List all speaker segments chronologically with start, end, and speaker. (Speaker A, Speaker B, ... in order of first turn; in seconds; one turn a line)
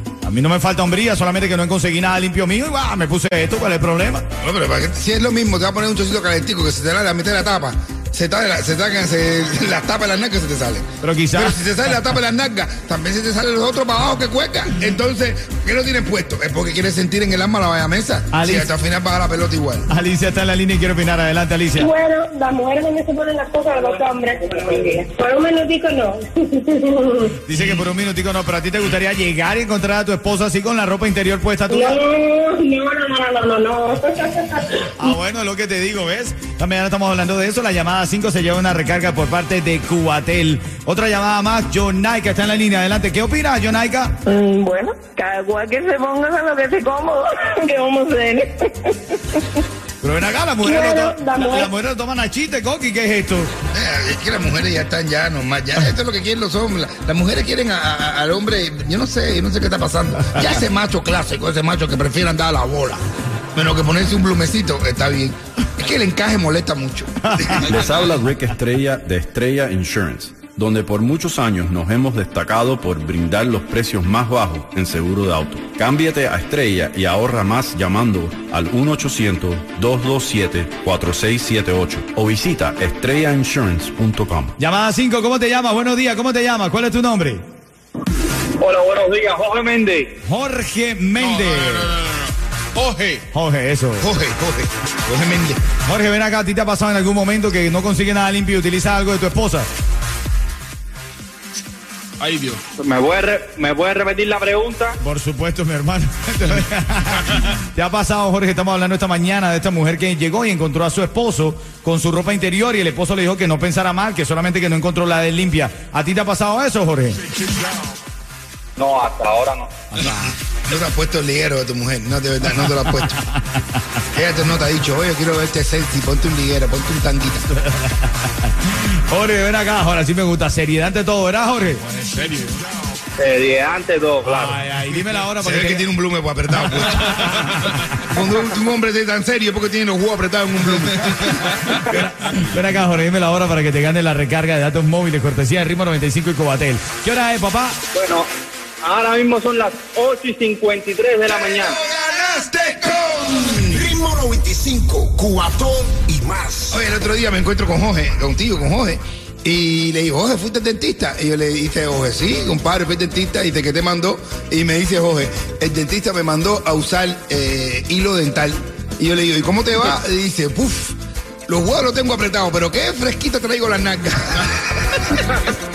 Speaker A: 0.2-4.2
Speaker B: 4.4-19.9
Speaker A: 11.0-11.6
Speaker A: 18.3-18.7
Speaker A: 19.9-21.9
Speaker C: 21.8-27.3
Speaker A: 27.4-32.0
Speaker C: 31.7-34.9
Speaker A: 35.0-44.1
Speaker D: 44.2-48.9
Speaker A: 50.0-53.5
Speaker C: 50.6-51.7
Speaker B: 53.7-63.0
Speaker B: 63.5-67.8
Speaker A: 67.2-67.6
Speaker E: 67.6-84.5
Speaker A: 84.6-87.4
Speaker F: 88.6-90.2
Speaker A: 90.2-92.0
Speaker G: 91.2-93.2
Speaker A: 93.3-94.1
Speaker B: 94.0-95.6
Speaker A: 95.8-99.7
Speaker G: 102.2-102.6
Speaker F: 102.8-105.0
Speaker A: 105.0-117.2
Speaker F: 118.8-119.7
Speaker A: 119.9-120.3
Speaker B: 120.0-123.2
Speaker B: 124.1-127.5
Speaker A: 127.6-128.5
Speaker A: 129.1-132.3
Speaker F: 133.2-134.6
Speaker A: 134.2-135.8
Speaker B: 135.4-137.4
Speaker A: 136.7-138.0
Speaker B: 138.0-141.5
Speaker A: 141.6-147.8
Speaker F: 147.9-148.3
Speaker F: 148.8-151.8
Speaker B: 151.3-153.9
Speaker H: 153.7-156.7
Speaker B: 156.7-171.0
Speaker B: 171.5-175.1